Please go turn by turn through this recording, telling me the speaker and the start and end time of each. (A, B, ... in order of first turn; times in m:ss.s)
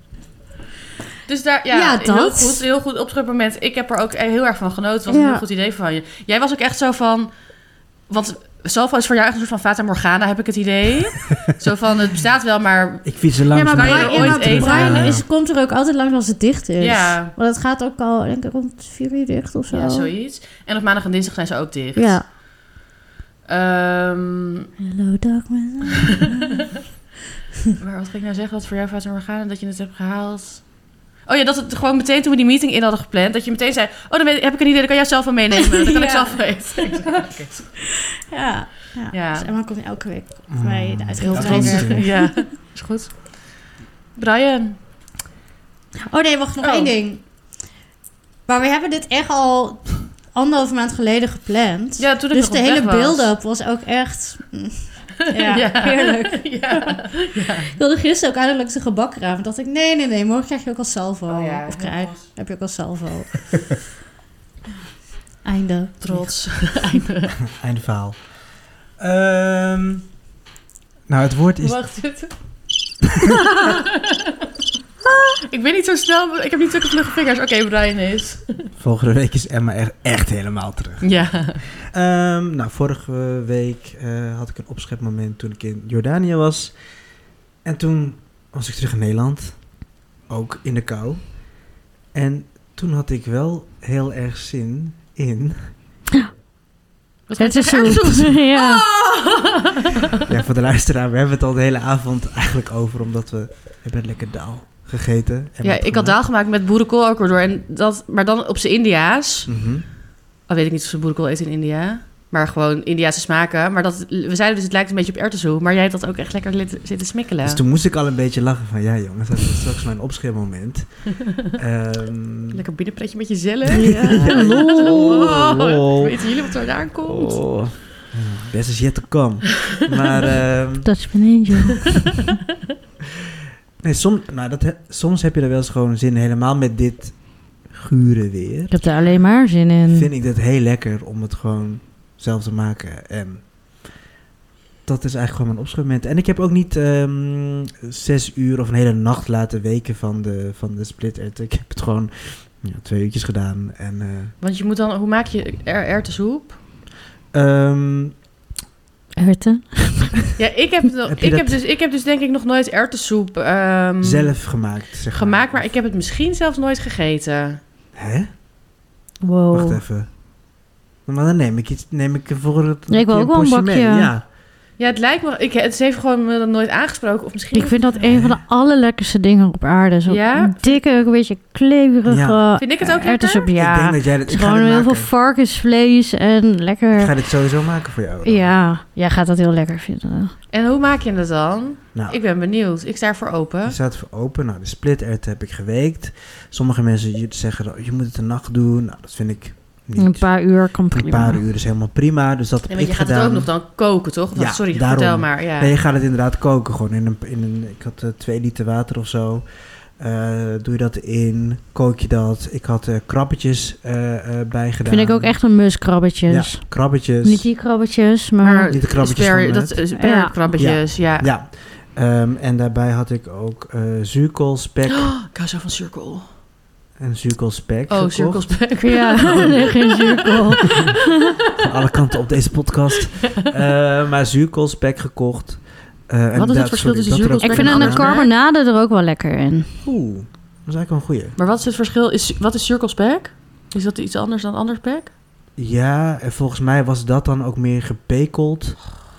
0:01.2-0:07.3 A
0:01.7-0:02.6 B
0:05.1-0:05.4 B
0:08.1-0:15.2 A
0:13.0-0:15.2 C
0:13.5-0:20.1 B
0:16.8-0:17.3 A
0:19.7-0:22.3 A
0:22.0-0:22.2 B
0:23.5-0:24.7 A
0:24.8-0:26.7 B
0:27.8-0:30.7 A
0:31.2-0:37.6 A
0:35.7-0:37.1 B
0:38.3-0:42.4 B
0:39.1-0:39.5 A
0:40.5-0:42.1 C
0:41.2-0:43.6 A
0:44.2-0:44.8 A
0:46.1-0:47.2 B
0:46.6-0:46.9 A
0:48.4-1:03.6 B
0:52.0-0:53.3 A
0:55.3-0:57.7 A
1:01.3-1:02.3 A
1:05.4-1:07.0 B
1:06.0-1:07.3 A
1:07.4-1:10.1 C
1:11.1-1:11.8 C
1:11.6-1:12.3 A
1:13.6-1:14.2 A
1:15.5-1:18.7 A
1:18.8-1:26.7 C
1:21.0-1:21.6 A
1:27.6-1:29.6 C
1:30.3-1:31.3 C
1:32.1-1:35.7 C
1:37.3-1:39.9 A
1:37.4-1:38.9 B
1:40.3-1:46.2 C
1:45.6-1:49.5 A
1:49.5-1:49.8 C
1:50.4-1:57.6 A
1:57.4-2:02.6 C
2:02.5-2:07.4 A
2:03.7-2:06.4 C
2:03.7-2:05.3 B
2:07.0-2:11.2 C
2:10.8-2:12.2 B
2:13.8-2:18.8 C
2:18.7-2:20.1 B
2:19.9-2:24.0 C
2:24.8-2:34.3 C
2:34.4-2:36.6 A
2:37.3-2:38.2 C
2:39.2-2:40.3 B
2:40.4-2:44.5 A
2:41.0-2:41.6 C
2:44.0-2:45.7 C
2:45.1-2:47.6 A
2:47.9-2:48.3 C
2:49.2-2:49.8 B
2:49.5-2:50.2 C
2:51.0-2:54.2 C
2:52.9-2:54.1 B
2:54.8-2:57.8 A
2:57.5-3:07.2 B
2:58.0-2:58.4 C
3:00.1-3:00.8 A
3:02.0-3:02.4 C
3:02.6-3:03.5 A
3:03.5-3:05.1 C
3:06.9-3:08.6 C
3:08.2-3:10.3 B
3:10.5-3:13.8 A
3:11.9-3:12.2 C
3:13.6-3:23.5 C
3:20.0-3:21.4 B
3:22.7-3:25.7 A
3:24.3-3:35.4 C
3:34.9-3:38.8 B
3:36.3-3:37.5 C
3:38.4-3:41.3 A
3:38.7-3:39.8 C
3:40.0-3:40.3 B
3:40.6-3:45.1 C
3:44.9-3:46.3 A
3:47.0-3:48.6 C
3:47.9-3:51.2 A
3:48.8-3:51.3 B
3:51.6-3:58.2 C
3:56.4-3:58.3 A
3:57.4-3:59.8 B
3:59.8-4:01.4 C
4:01.4-4:05.1 A
4:05.6-4:09.0 C